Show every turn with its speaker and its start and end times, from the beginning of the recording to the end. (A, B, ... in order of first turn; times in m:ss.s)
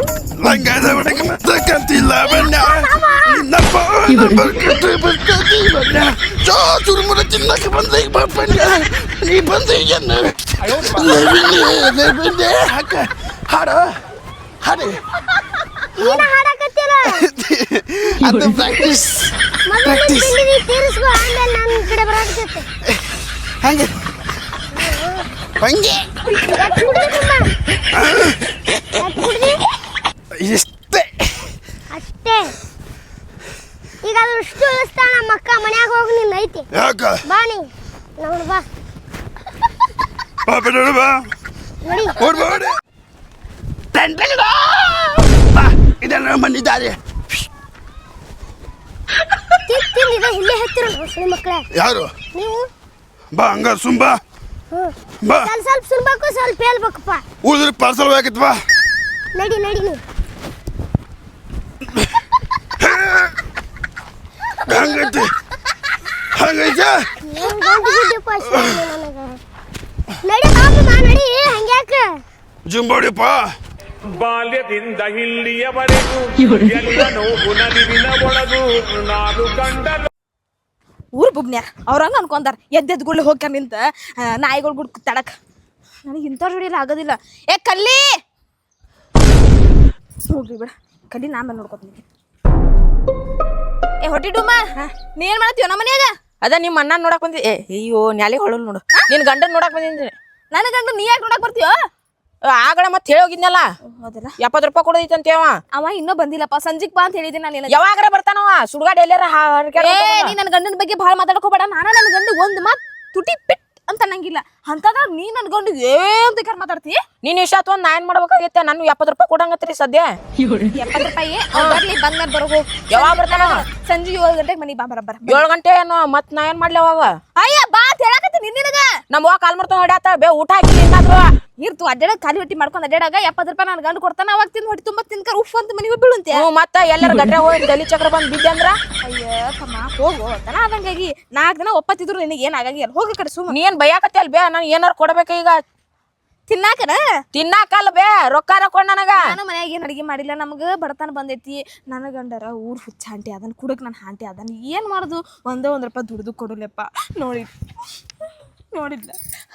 0:00.4-0:14.0 A
0:02.2-0:03.4 B
0:14.6-0:15.0 A
0:16.0-0:17.3 B
0:16.0-0:16.3 A
0:17.1-0:20.4 A
0:19.7-0:22.7 B
0:22.8-0:23.9 A
0:24.7-0:25.3 B
0:25.6-0:26.7 A
0:26.5-0:27.5 B
0:27.9-0:28.4 A
0:29.0-0:29.6 B
0:30.3-0:31.5 A
0:31.9-0:32.5 B
0:34.0-0:36.7 B
0:36.7-0:37.2 A
0:37.2-0:37.7 B
0:38.2-0:38.7 B
0:40.4-0:41.2 A
0:41.8-0:42.2 B
0:42.2-0:42.8 A
0:43.9-0:47.5 A
0:49.7-0:51.7 B
0:51.7-0:52.1 A
0:52.4-0:52.7 B
0:53.3-0:54.2 A
0:54.7-0:57.2 B
0:55.2-0:55.5 A
0:57.4-0:58.6 A
0:59.4-1:00.0 B
1:02.8-1:03.4 A
1:04.7-1:05.3 A
1:06.4-1:07.0 A
1:07.2-1:09.4 B
1:10.2-1:12.1 B
1:12.7-1:13.4 A
1:14.1-1:20.1 C
1:21.2-1:25.4 D
1:26.0-1:28.1 D
1:30.2-1:32.0 D
1:34.0-1:36.1 D
1:36.4-1:40.1 E
1:40.5-1:41.8 D
1:42.5-1:43.7 E
1:43.8-1:44.4 D
1:44.4-1:45.6 E
1:45.7-1:47.8 D
1:47.7-1:50.3 E
1:49.8-1:57.0 D
1:57.2-2:00.1 E
2:00.7-2:05.4 D
2:01.6-2:01.8 E
2:02.9-2:03.6 E
2:05.3-2:07.2 E
2:07.4-2:08.9 D
2:09.1-2:11.3 E
2:11.6-2:16.4 D
2:16.3-2:18.8 E
2:19.0-2:23.6 D
2:23.5-2:25.6 E
2:26.5-2:27.0 D
2:27.3-2:29.3 E
2:29.1-2:37.5 D
2:38.7-2:39.2 D